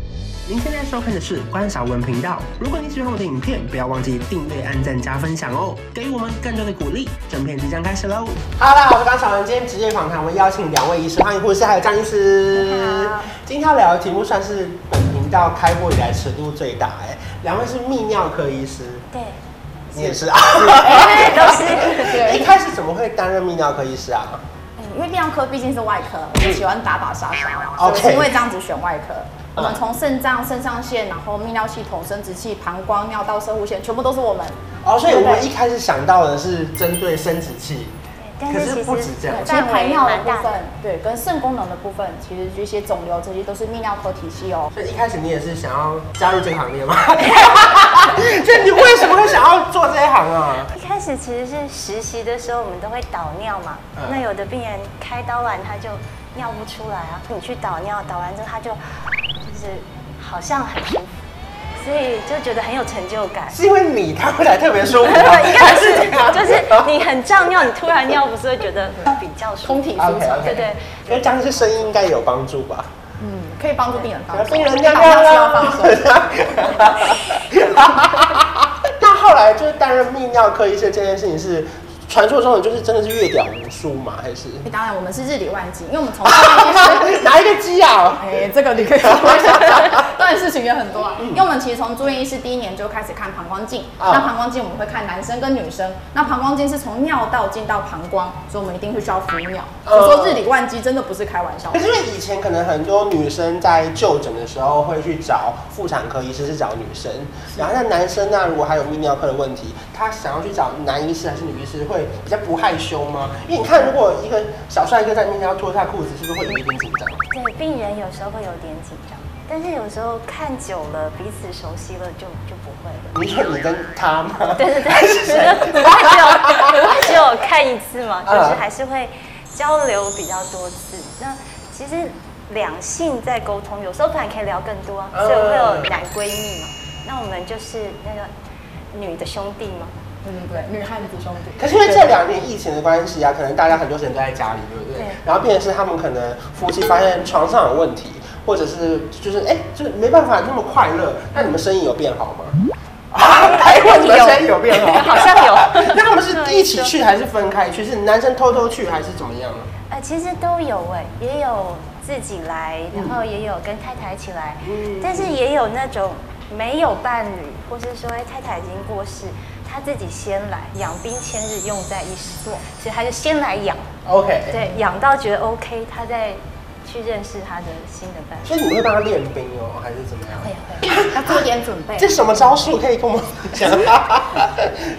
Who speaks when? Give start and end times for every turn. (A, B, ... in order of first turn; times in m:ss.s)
0:00.5-0:19.0 A
0:12.5-0:13.3 B
0:19.1-0:19.4 B
0:19.9-0:24.4 A
0:20.0-0:22.5 C
0:20.8-0:22.3 B
0:24.8-0:35.5 C
0:27.8-0:28.4 A
0:29.6-0:29.8 A
0:34.8-0:39.6 A
0:38.2-0:40.6 B
0:39.3-0:44.7 C
0:44.7-0:50.7 A
0:47.4-0:47.9 B
0:50.7-0:58.8 B
0:54.0-0:54.2 A
0:59.4-1:01.2 B
1:01.8-1:03.6 B
1:03.5-1:06.9 A
1:05.0-1:11.9 B
1:09.6-1:10.7 C
1:10.0-1:12.9 A
1:13.2-1:16.2 C
1:14.3-1:24.6 A
1:24.6-1:27.3 C
1:26.2-1:28.3 A
1:28.2-1:41.8 C
1:29.0-1:29.6 A
1:34.0-1:34.3 A
1:39.9-1:40.4 A
1:41.7-1:57.2 A
1:57.3-2:03.1 B
2:03.1-2:07.0 A
2:04.6-2:18.3 B
2:08.2-2:08.6 A
2:15.1-2:15.9 A
2:18.9-2:19.9 B
2:20.2-2:22.1 C
2:21.6-2:32.6 A
2:33.1-2:39.7 A
2:33.2-2:37.0 B
2:39.9-2:53.9 B
2:44.6-2:45.4 A
2:54.0-2:54.7 A
2:54.5-2:58.5 B
2:58.4-3:01.4 A
3:00.3-3:00.9 B
3:00.9-3:02.2 C
3:02.0-3:04.9 A